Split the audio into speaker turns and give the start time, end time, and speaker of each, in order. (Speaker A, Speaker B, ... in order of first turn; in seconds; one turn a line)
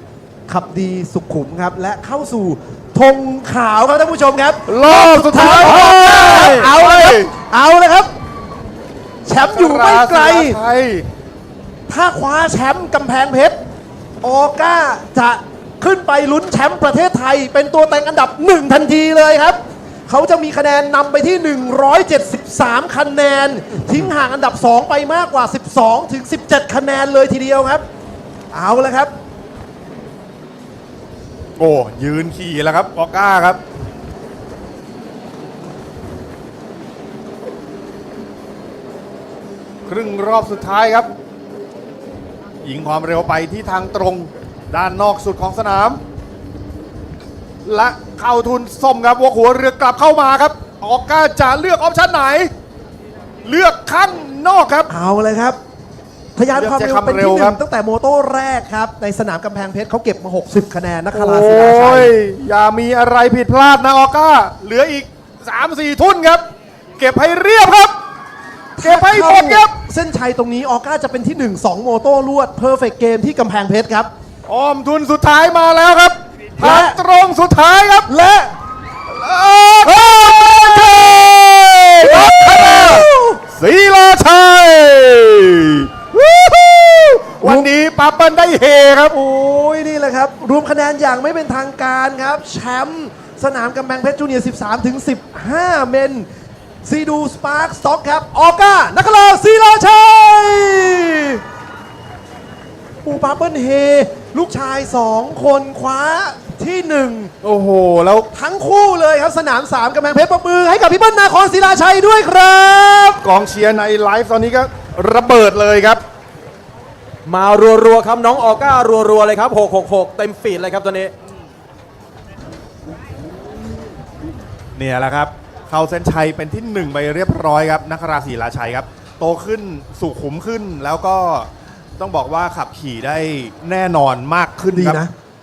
Speaker A: 0.5-8.1
Speaker B: 4.7-7.3
Speaker C: 5.9-6.5
Speaker A: 9.2-10.6
Speaker B: 9.4-11.1
Speaker A: 11.9-13.6
Speaker A: 14.2-27.8
Speaker A: 28.5-29.1
Speaker B: 31.6-33.6
Speaker B: 39.9-41.1
Speaker B: 42.6-46.0
Speaker B: 47.6-52.5
Speaker B: 53.4-54.9
Speaker A: 54.9-55.6
Speaker A: 56.4-62.1
Speaker B: 56.5-57.6
Speaker B: 61.1-67.9
Speaker A: 68.8-74.1
Speaker B: 68.8-69.7
Speaker B: 74.5-78.1
Speaker A: 76.6-77.0
Speaker A: 78.1-78.5
Speaker B: 79.1-89.1
Speaker A: 82.0-83.4
Speaker A: 87.4-87.7
Speaker A: 89.1-96.3
Speaker A: 96.8-101.4
Speaker A: 103.0-107.3
Speaker B: 107.4-108.3
Speaker A: 108.3-113.2
Speaker B: 113.2-116.0
Speaker C: 117.2-121.1
Speaker B: 124.7-135.0
Speaker A: 134.7-135.1